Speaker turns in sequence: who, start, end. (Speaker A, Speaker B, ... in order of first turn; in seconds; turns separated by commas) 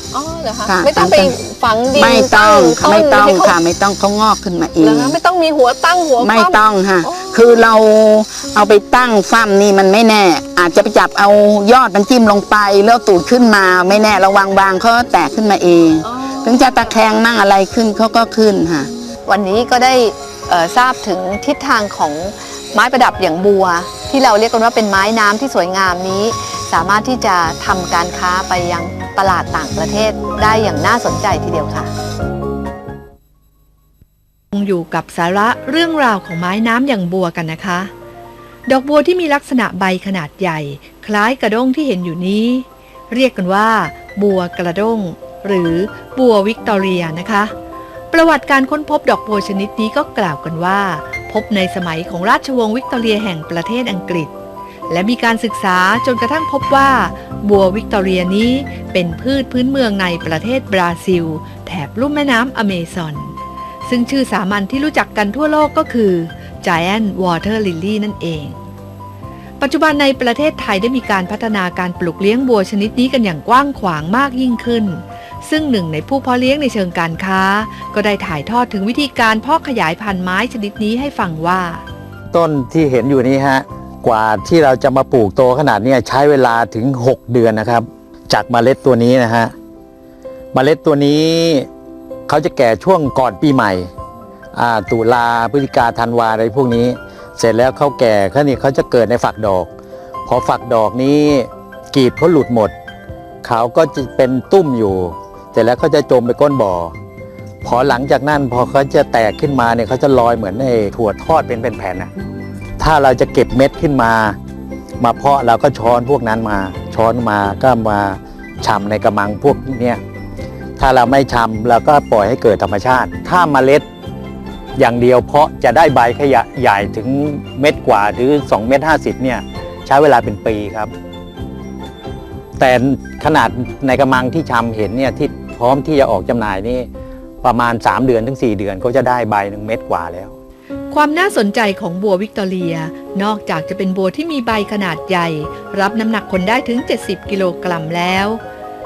Speaker A: 0.1-3.6, Speaker B: 0.7-1.4, Speaker B: 1.9-5.2, Speaker A: 4.8-7.3, Speaker B: 6.2-18.9, Speaker A: 16.0-17.0, Speaker A: 19.2-31.9, Speaker C: 34.5-37.9, Speaker C: 38.7-47.5, Speaker C: 48.1-54.3, Speaker C: 54.9-63.4, Speaker C: 63.9-68.6, Speaker C: 69.6-81.8, Speaker D: 82.3-89.5, Speaker D: 90.5-91.7, Speaker D: 92.3-93.9, Speaker D: 94.5-99.7, Speaker D: 100.2-102.7, Speaker D: 103.4-106.9, Speaker D: 107.6-112.1, Speaker D: 112.8-114.4, Speaker D: 115.0-120.0, Speaker D: 120.8-123.8, Speaker D: 124.8-130.9, Speaker D: 132.6-136.9, Speaker D: 137.4-140.3, Speaker C: 140.9-148.4